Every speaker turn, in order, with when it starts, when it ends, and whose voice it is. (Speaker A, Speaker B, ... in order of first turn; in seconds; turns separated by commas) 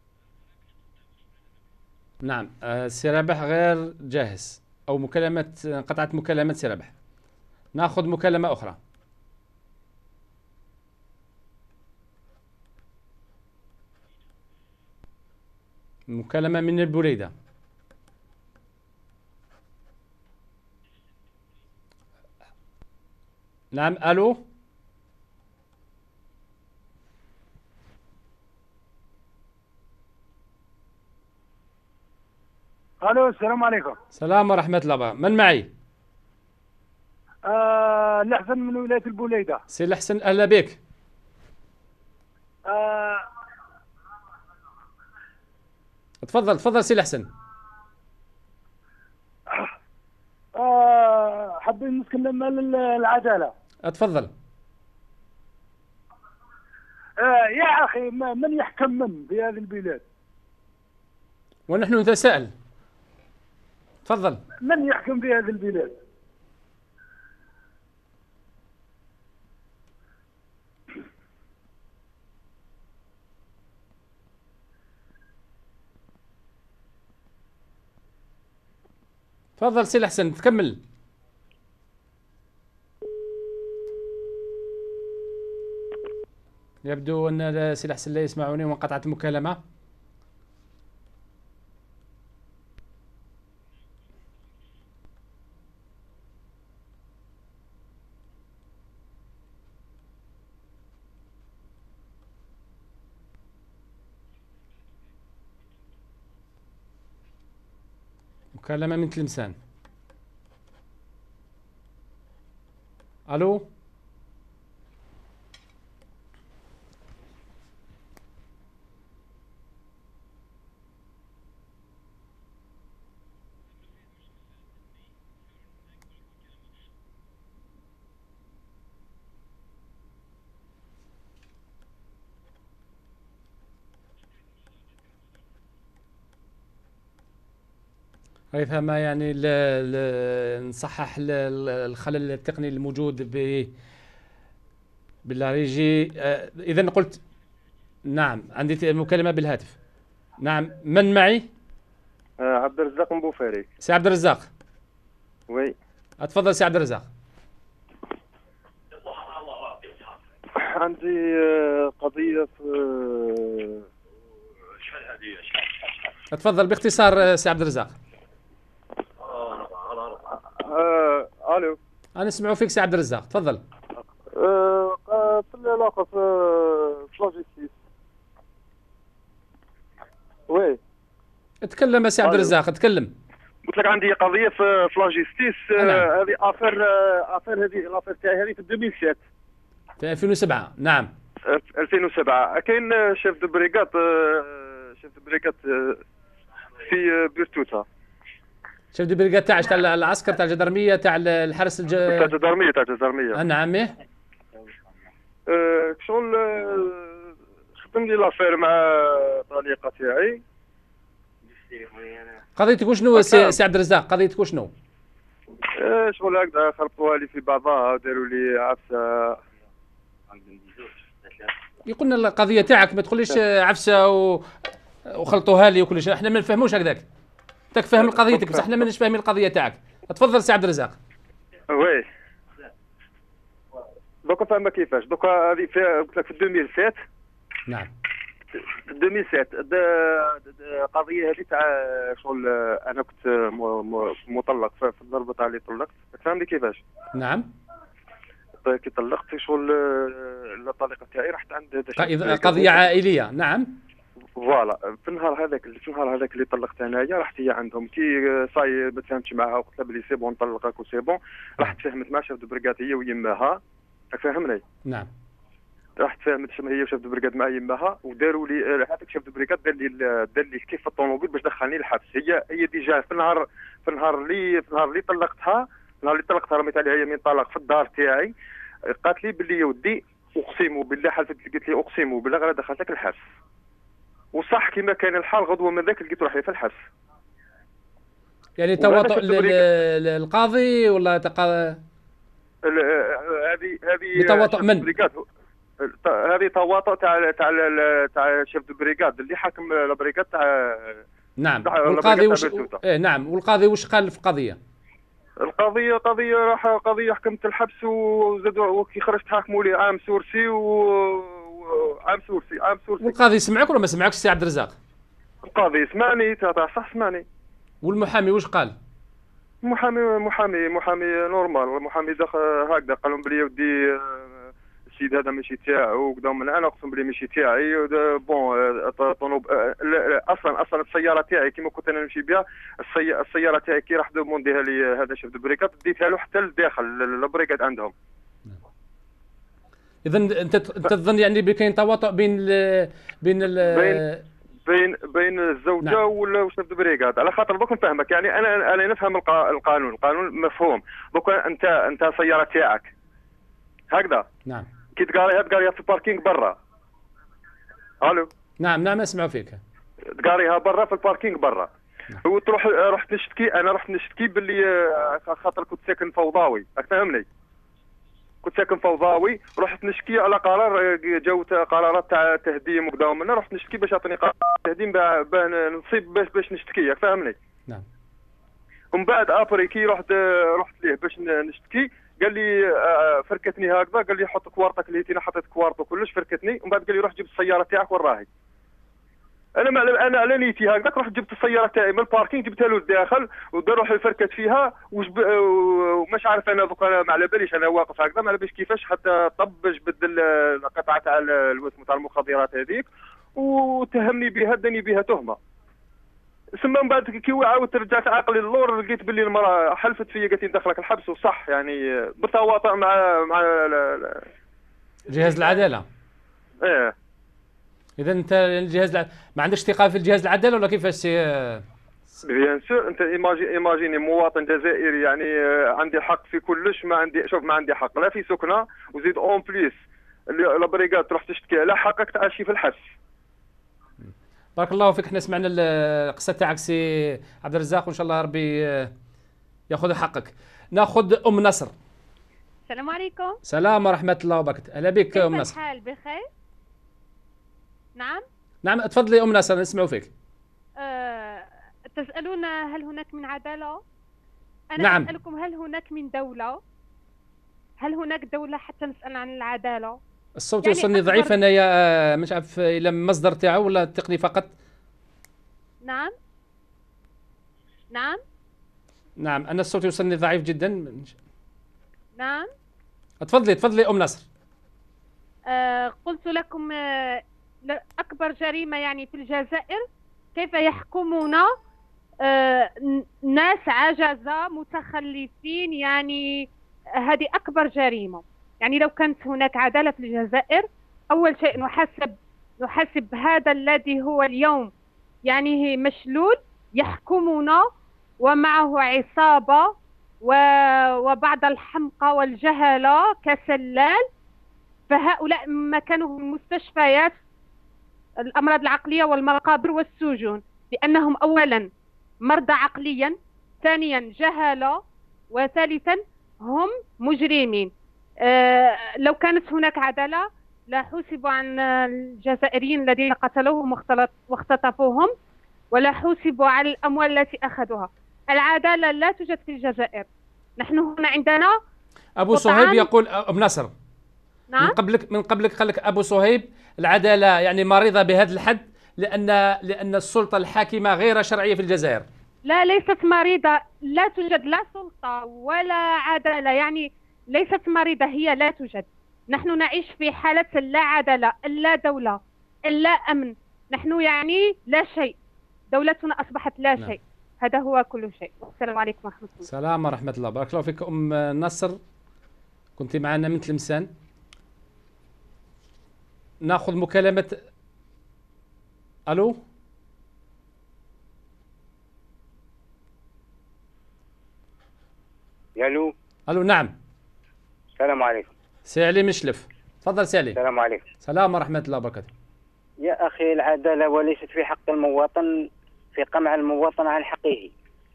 Speaker A: 2.2-6.9, Speaker A: 7.7-8.7, Speaker A: 16.1-17.3, Speaker A: 23.7-24.4, Speaker B: 33.0-34.0, Speaker A: 34.2-35.7, Speaker B: 37.5-39.6, Speaker A: 39.7-40.8, Speaker B: 42.7-43.2, Speaker A: 46.2-47.3, Speaker B: 50.6-53.5, Speaker A: 53.9-54.3, Speaker B: 57.2-60.0, Speaker A: 61.7-62.5, Speaker A: 64.1-64.4, Speaker B: 64.6-65.9, Speaker A: 79.6-80.7, Speaker A: 86.8-89.6, Speaker A: 108.5-109.5, Speaker A: 113.3-113.6, Speaker A: 138.5-143.7, Speaker A: 145.2-147.2, Speaker A: 148.1-149.7, Speaker A: 150.4-151.4, Speaker C: 152.4-153.7, Speaker A: 153.8-154.4, Speaker C: 155.5-155.7, Speaker A: 156.2-157.0, Speaker C: 160.6-163.8, Speaker A: 166.3-167.9, Speaker C: 170.5-171.8, Speaker A: 172.2-173.6, Speaker C: 174.3-177.7, Speaker C: 180.5-180.8, Speaker A: 181.6-183.1, Speaker C: 182.2-182.5, Speaker C: 183.7-189.2, Speaker A: 185.8-186.1, Speaker A: 190.0-191.1, Speaker C: 191.5-196.0, Speaker C: 196.8-197.8, Speaker A: 198.9-202.3, Speaker C: 202.1-203.4, Speaker A: 203.3-203.9, Speaker C: 205.5-207.1, Speaker C: 207.8-210.4, Speaker A: 212.6-214.7, Speaker C: 213.1-213.5, Speaker C: 215.8-219.4, Speaker A: 221.8-224.4, Speaker A: 225.1-227.0, Speaker A: 227.7-230.9, Speaker C: 228.0-228.7, Speaker C: 231.7-232.1, Speaker C: 234.2-237.0, Speaker C: 238.9-246.8, Speaker A: 247.1-247.5, Speaker C: 248.6-252.9, Speaker A: 252.0-253.7, Speaker C: 254.4-263.6, Speaker C: 264.1-264.6, Speaker C: 266.0-278.3, Speaker C: 279.0-283.2, Speaker C: 284.3-286.9, Speaker A: 288.6-291.8, Speaker C: 288.8-289.6, Speaker C: 292.6-295.2, Speaker A: 294.1-294.9, Speaker C: 295.8-301.0, Speaker A: 301.4-304.6, Speaker C: 301.6-302.8, Speaker C: 305.4-313.1, Speaker A: 313.0-314.7, Speaker C: 315.4-317.2, Speaker A: 317.8-318.7, Speaker C: 319.6-337.9, Speaker A: 340.0-344.2, Speaker C: 343.7-344.0, Speaker C: 344.6-352.9, Speaker C: 353.9-354.2, Speaker C: 354.9-356.6, Speaker C: 358.0-358.3, Speaker A: 358.6-359.6, Speaker C: 360.2-361.7, Speaker C: 362.2-367.2, Speaker C: 368.4-377.4, Speaker C: 378.9-388.3, Speaker C: 389.6-405.4, Speaker C: 406.6-414.2, Speaker A: 415.1-415.8, Speaker C: 415.2-415.5, Speaker C: 416.6-416.9, Speaker A: 418.0-421.6, Speaker C: 422.2-432.9, Speaker A: 434.0-438.9, Speaker A: 439.7-441.7, Speaker D: 442.7-443.4, Speaker A: 443.5-445.5, Speaker D: 445.1-446.2, Speaker D: 448.0-448.2, Speaker A: 448.6-450.1, Speaker D: 450.8-453.8, Speaker D: 454.7-456.6, Speaker A: 454.8-455.1, Speaker D: 457.8-460.0, Speaker A: 460.4-464.5, Speaker D: 460.6-461.3, Speaker D: 465.8-466.1, Speaker D: 467.9-468.2, Speaker A: 469.2-471.1, Speaker D: 472.2-472.5, Speaker A: 473.2-474.2, Speaker D: 475.5-479.8, Speaker D: 480.4-481.5, Speaker D: 482.2-486.5, Speaker D: 487.0-494.7, Speaker D: 495.3-497.6, Speaker D: 498.2-504.0, Speaker D: 504.9-507.1, Speaker D: 508.2-511.7, Speaker D: 512.2-514.8, Speaker D: 515.3-517.7, Speaker D: 518.2-525.1, Speaker D: 525.7-530.1, Speaker D: 530.6-531.6, Speaker A: 532.2-533.7, Speaker D: 532.3-532.9, Speaker D: 534.5-534.8, Speaker A: 534.6-542.0, Speaker D: 542.4-555.1, Speaker D: 555.7-559.5, Speaker A: 559.5-561.8, Speaker A: 562.8-563.9, Speaker A: 566.4-567.3, Speaker A: 569.1-569.4, Speaker E: 575.6-575.9, Speaker A: 576.3-576.7, Speaker E: 577.8-578.3, Speaker A: 578.7-580.4, Speaker E: 580.4-580.8, Speaker A: 581.0-582.1, Speaker E: 582.8-585.3, Speaker E: 585.9-587.5